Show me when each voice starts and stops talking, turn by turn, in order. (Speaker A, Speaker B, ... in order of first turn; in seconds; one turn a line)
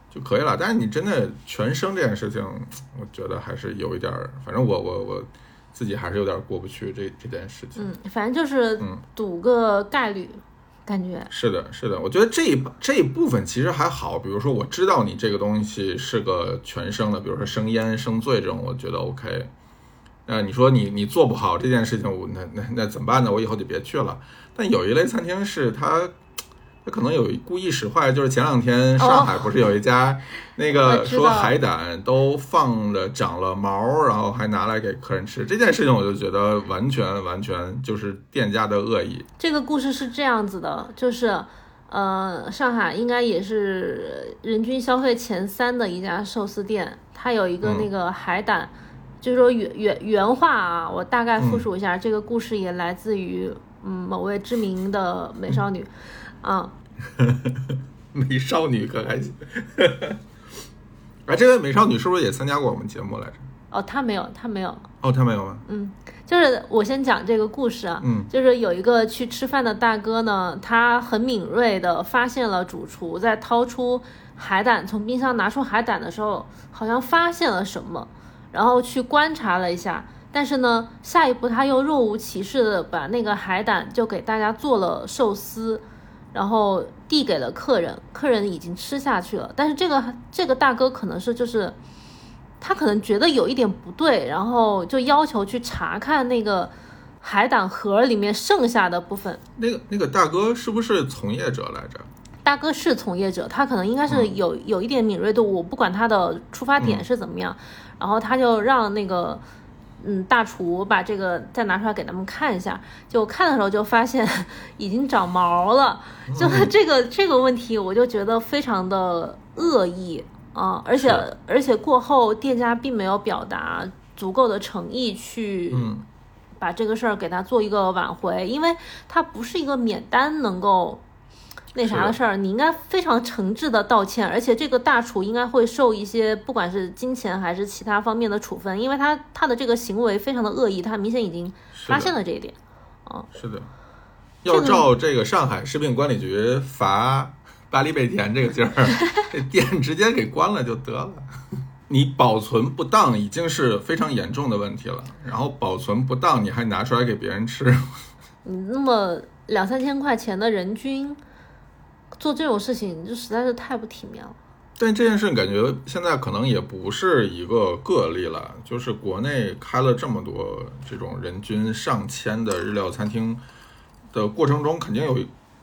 Speaker A: 0.1-7.9
Speaker B: 7.8-11.3
Speaker A: 11.3-19.5
Speaker A: 20.3-26.1
Speaker A: 26.8-39.3
Speaker B: 29.0-29.5
Speaker B: 30.7-31.5
Speaker B: 39.4-56.7
Speaker A: 47.6-47.9
Speaker A: 51.4-51.6
Speaker A: 57.1-60.2
Speaker A: 61.3-63.5
Speaker B: 63.7-64.9
Speaker A: 65.0-65.6
Speaker B: 65.7-91.8
Speaker A: 68.0-68.3
Speaker B: 92.6-99.4
Speaker A: 99.6-102.1
Speaker B: 102.4-109.4
Speaker A: 104.1-104.3
Speaker A: 106.8-107.0
Speaker B: 110.0-125.9
Speaker A: 116.3-116.7
Speaker A: 121.0-121.2
Speaker A: 125.7-126.0
Speaker B: 126.6-131.0
Speaker B: 131.7-143.3
Speaker A: 131.8-132.2
Speaker A: 141.7-142.1
Speaker A: 143.3-143.7
Speaker A: 144.4-151.2
Speaker B: 144.5-144.9
Speaker A: 151.9-157.9
Speaker B: 158.4-161.2
Speaker B: 162.2-164.4
Speaker A: 164.8-173.4
Speaker A: 174.1-175.3